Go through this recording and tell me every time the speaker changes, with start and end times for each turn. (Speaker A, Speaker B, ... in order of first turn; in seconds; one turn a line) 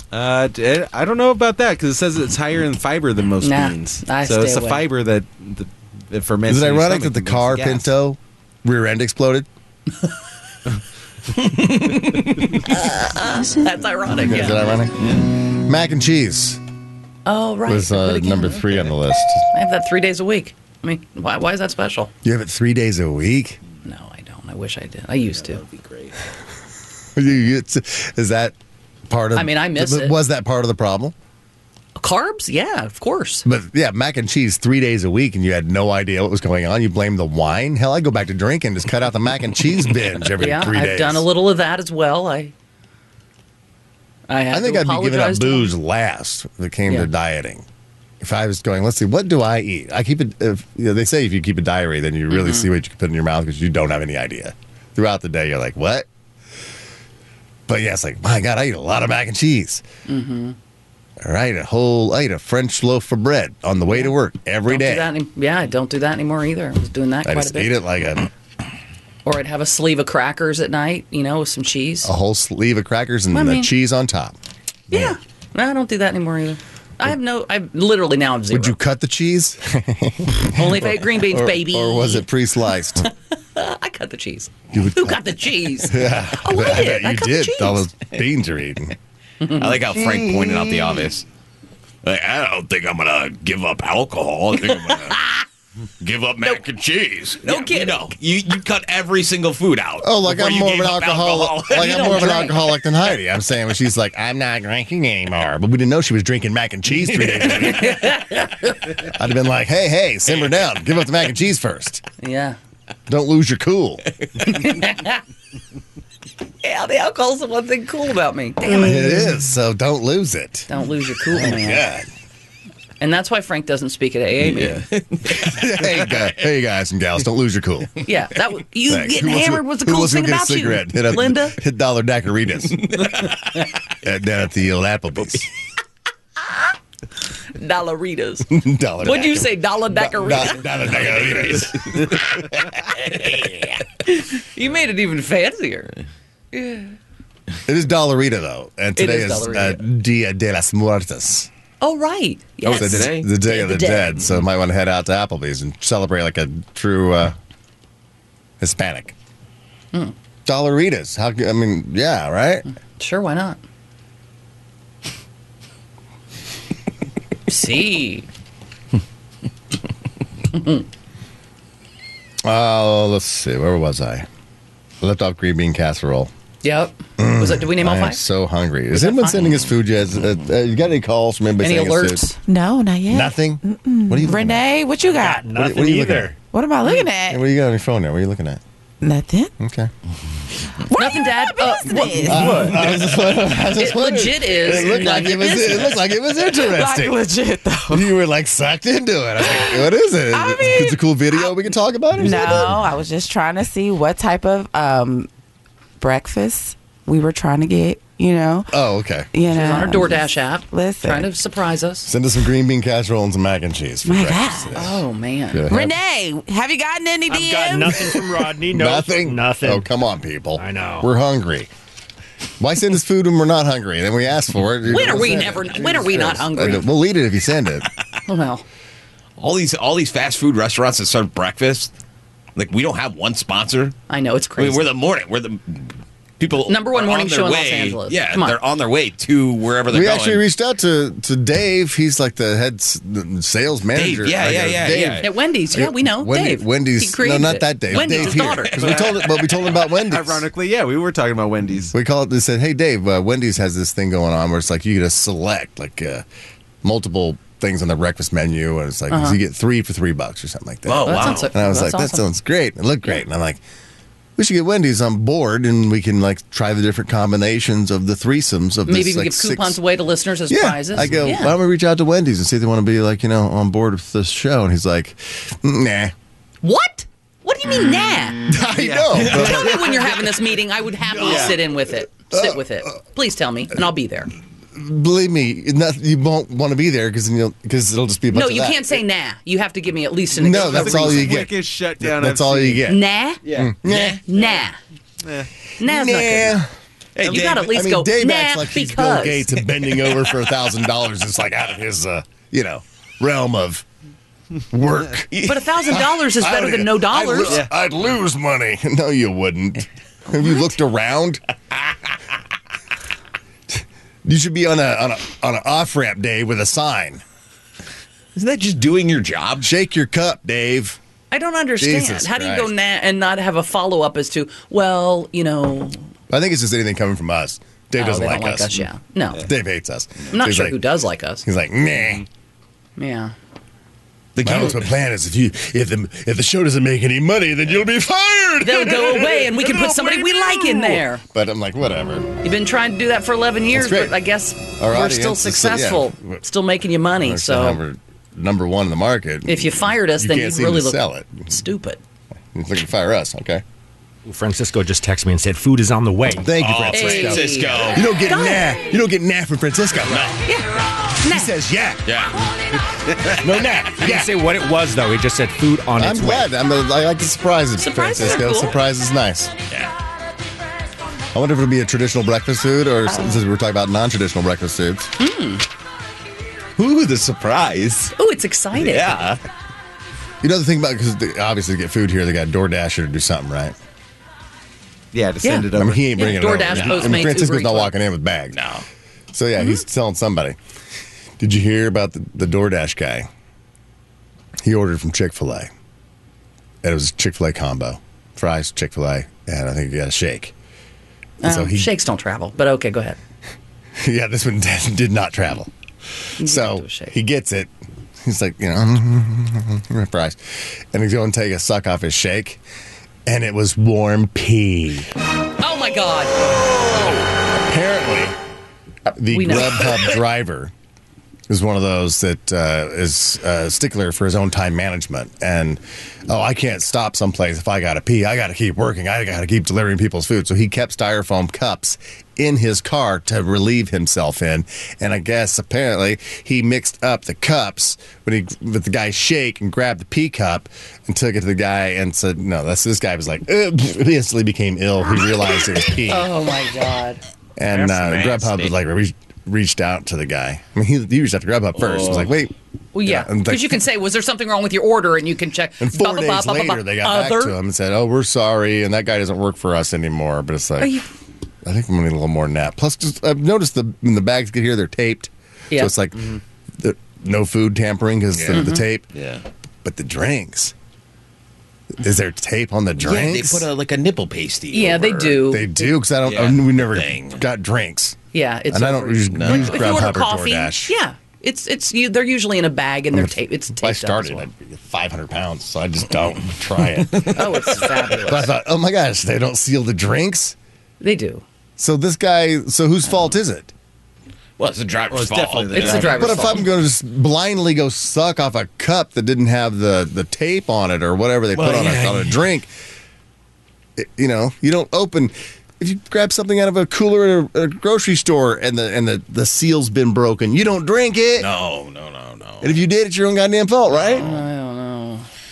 Speaker A: 0.1-7.9
Speaker B: 3.4-4.9
Speaker C: 6.5-9.5
Speaker D: 11.6-12.2
Speaker B: 12.7-14.6
Speaker C: 14.1-16.6
Speaker B: 17.3-18.9
Speaker C: 17.7-19.5
Speaker B: 19.5-22.1
Speaker C: 22.2-23.6
Speaker B: 23.8-25.6
Speaker A: 25.6-26.0
Speaker C: 27.2-28.6
Speaker C: 29.1-31.1
Speaker B: 29.4-30.2
Speaker B: 32.0-33.5
Speaker C: 33.5-41.3
Speaker B: 40.4-42.5
Speaker B: 44.3-45.7
Speaker C: 44.5-47.6
Speaker C: 48.2-56.1
Speaker B: 52.3-52.7
Speaker C: 57.7-59.8
Speaker B: 60.1-60.6
Speaker C: 61.2-65.1
Speaker B: 64.7-67.8
Speaker C: 67.2-68.3
Speaker B: 69.2-72.1
Speaker C: 72.0-74.4
Speaker B: 73.3-73.7
Speaker C: 74.9-75.2
Speaker B: 74.9-78.8
Speaker C: 78.5-83.1
Speaker B: 80.5-82.3
Speaker B: 83.0-87.9
Speaker C: 84.7-89.0
Speaker B: 89.4-89.8
Speaker D: 89.5-91.2
Speaker D: 92.0-95.2
Speaker D: 96.0-102.5
Speaker B: 97.4-98.1
Speaker C: 100.0-108.2
Speaker B: 101.8-102.6
Speaker B: 107.6-108.5
Speaker C: 109.0-112.0
Speaker B: 112.2-112.6
Speaker C: 113.1-114.0
Speaker B: 114.4-115.2
Speaker B: 116.6-119.2
Speaker C: 118.6-120.7
Speaker B: 120.7-121.8
Speaker C: 121.3-122.1
Speaker B: 123.0-124.8
Speaker D: 124.5-126.3
Speaker C: 125.3-127.9
Speaker B: 128.1-131.6
Speaker C: 128.9-132.8
Speaker D: 132.8-133.3
Speaker C: 134.0-135.5
Speaker B: 137.6-138.5
Speaker C: 138.5-142.1
Speaker B: 139.0-140.7
Speaker D: 141.0-141.7
Speaker D: 143.0-143.8
Speaker B: 144.1-145.9
Speaker B: 146.5-146.9
Speaker C: 147.7-151.5
Speaker B: 149.0-149.8
Speaker B: 151.8-154.3
Speaker D: 152.7-153.3
Speaker C: 152.7-157.3
Speaker C: 158.6-159.2
Speaker C: 160.5-162.7
Speaker B: 163.0-163.6
Speaker B: 167.5-168.3
Speaker B: 170.5-170.8
Speaker C: 172.4-174.3
Speaker C: 175.0-176.3
Speaker B: 176.6-178.2
Speaker C: 177.2-182.3
Speaker B: 178.9-179.6
Speaker B: 181.6-182.4
Speaker E: 182.4-185.5
Speaker C: 183.1-184.8
Speaker F: 185.1-186.4
Speaker C: 185.4-186.3
Speaker E: 186.4-187.4
Speaker C: 187.0-188.6
Speaker E: 189.0-189.5
Speaker C: 189.6-189.9
Speaker B: 190.9-196.0
Speaker E: 190.9-192.7
Speaker C: 192.2-197.2
Speaker E: 196.4-198.1
Speaker C: 197.9-202.9
Speaker E: 199.4-201.6
Speaker E: 202.2-205.3
Speaker E: 206.0-208.7
Speaker C: 208.7-209.3
Speaker E: 209.3-211.3
Speaker B: 209.5-212.1
Speaker C: 212.1-216.0
Speaker E: 214.1-214.8
Speaker B: 214.8-215.7
Speaker E: 215.7-218.0
Speaker F: 217.3-219.9
Speaker C: 218.7-221.7
Speaker F: 220.6-221.1
Speaker C: 222.6-227.9
Speaker B: 224.9-226.9
Speaker B: 228.3-228.6
Speaker D: 229.4-231.9
Speaker D: 232.6-234.0
Speaker B: 234.1-234.9
Speaker D: 234.6-240.4
Speaker B: 236.7-238.6
Speaker C: 239.9-250.5
Speaker D: 243.9-245.3
Speaker B: 245.2-248.7
Speaker D: 248.0-249.3
Speaker A: 248.8-249.1
Speaker A: 250.1-251.9
Speaker C: 251.9-256.2
Speaker C: 256.8-263.6
Speaker B: 259.1-259.4
Speaker D: 260.9-261.5
Speaker B: 261.0-262.2
Speaker C: 264.4-269.8
Speaker B: 268.9-271.6
Speaker C: 270.5-276.1
Speaker B: 276.6-284.3
Speaker C: 278.5-279.9
Speaker A: 281.2-281.6
Speaker C: 282.3-282.6
Speaker C: 284.7-289.0
Speaker B: 288.3-291.4
Speaker C: 290.4-294.2
Speaker A: 290.6-292.9
Speaker B: 292.9-293.4
Speaker D: 293.8-294.2
Speaker B: 294.3-294.8
Speaker A: 295.2-295.5
Speaker B: 295.8-296.6
Speaker C: 295.8-296.7
Speaker D: 297.2-297.7
Speaker B: 297.3-299.5
Speaker C: 297.3-303.9
Speaker C: 304.7-311.4
Speaker D: 305.3-305.6
Speaker B: 305.4-307.6
Speaker B: 310.4-310.6
Speaker C: 313.7-317.2
Speaker D: 318.4-319.7
Speaker C: 319.6-321.0
Speaker B: 321.3-326.1
Speaker C: 321.8-322.7
Speaker C: 326.3-328.8
Speaker B: 328.0-329.4
Speaker C: 329.4-330.8
Speaker B: 330.3-331.4
Speaker C: 331.4-332.2
Speaker B: 333.0-333.3
Speaker D: 334.4-334.9
Speaker C: 334.4-342.3
Speaker B: 338.6-341.2
Speaker B: 342.4-347.8
Speaker C: 343.7-344.2
Speaker C: 344.8-346.4
Speaker C: 347.2-351.5
Speaker B: 349.5-352.0
Speaker C: 352.5-353.6
Speaker F: 354.3-356.5
Speaker C: 356.4-360.4
Speaker D: 356.6-358.1
Speaker B: 356.9-358.9
Speaker D: 360.1-360.4
Speaker B: 360.5-361.5
Speaker C: 361.2-362.1
Speaker D: 362.1-362.5
Speaker C: 363.4-364.4
Speaker F: 364.0-366.5
Speaker C: 366.0-369.5
Speaker B: 367.8-368.8
Speaker C: 371.3-375.1
Speaker B: 375.2-375.6
Speaker D: 376.8-378.1
Speaker B: 378.2-379.2
Speaker D: 378.8-379.4
Speaker C: 380.4-383.8
Speaker A: 385.1-386.8
Speaker B: 385.4-387.9
Speaker C: 385.7-388.6
Speaker D: 388.5-388.9
Speaker C: 389.3-390.6
Speaker C: 391.4-393.3
Speaker C: 394.6-395.7
Speaker C: 396.8-400.5
Speaker B: 401.4-403.2
Speaker C: 401.4-401.9
Speaker C: 404.0-405.7
Speaker B: 406.4-407.1
Speaker C: 406.4-412.6
Speaker C: 413.3-415.1
Speaker B: 415.6-416.4
Speaker C: 417.4-418.4
Speaker B: 419.1-420.2
Speaker C: 419.2-420.7
Speaker C: 421.5-446.3
Speaker B: 446.1-447.2
Speaker C: 447.6-452.5
Speaker D: 447.7-448.7
Speaker D: 451.8-452.3
Speaker B: 452.9-457.6
Speaker C: 453.1-453.8
Speaker C: 455.8-461.0
Speaker B: 460.8-461.1
Speaker C: 461.6-469.1
Speaker D: 468.4-469.4
Speaker B: 468.5-468.8
Speaker C: 469.8-470.7
Speaker C: 472.0-473.7
Speaker D: 473.0-475.5
Speaker B: 474.7-475.9
Speaker C: 475.5-478.2
Speaker D: 476.2-477.4
Speaker B: 478.3-484.5
Speaker C: 478.7-480.9
Speaker D: 479.3-480.0
Speaker C: 483.1-490.6
Speaker B: 487.3-488.5
Speaker B: 491.0-491.4
Speaker C: 491.8-493.7
Speaker D: 494.6-496.3
Speaker A: 495.1-496.5
Speaker B: 495.7-496.7
Speaker C: 496.1-502.7
Speaker D: 501.6-502.4
Speaker C: 504.0-511.5
Speaker D: 511.4-512.8
Speaker C: 512.6-514.3
Speaker D: 514.0-514.5
Speaker B: 514.2-515.3